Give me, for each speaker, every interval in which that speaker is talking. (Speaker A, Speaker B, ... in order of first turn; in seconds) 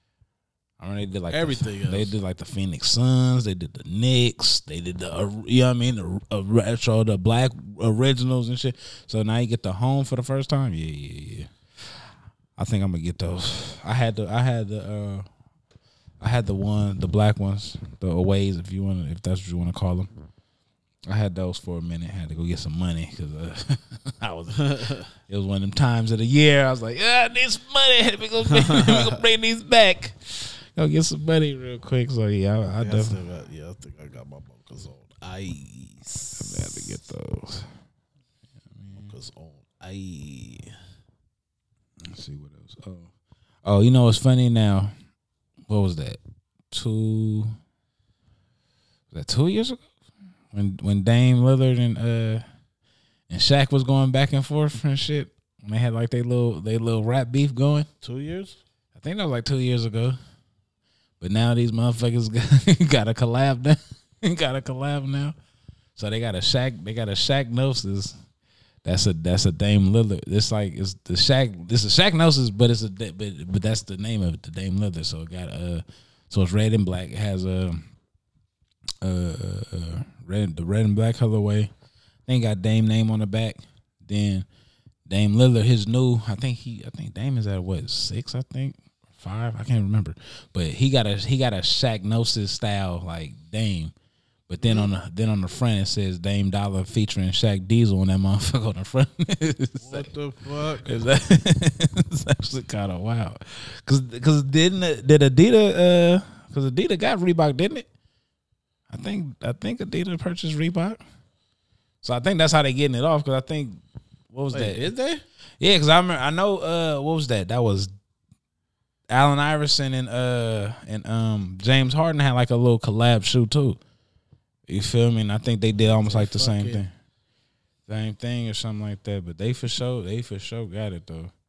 Speaker A: 0.8-15.3, 16.2-20.1, 21.1-33.2, 36.3-37.7, 38.7-39.1, 42.0-43.1, 43.6-44.9, 45.6-46.2, 46.7-47.5, 49.1-49.9, 50.5-52.4, 53.3-57.9, 58.9-60.2, 61.2-65.3, 66.0-68.2, 68.8-77.9, 79.0-81.7, 82.2-84.5, 85.1-93.9, 94.5-100.1, 100.8-107.9, 108.9-111.0, 112.0-113.8, 114.3-114.9, 115.6-117.9, 119.1-123.8, 124.7-126.9, 127.9-131.3
Speaker B: 1.3-2.1, 24.5-25.1, 28.5-29.1, 32.8-37.0, 39.0-40.7, 58.0-58.6, 94.6-94.9, 99.8-100.9, 114.5-115.2, 125.8-126.8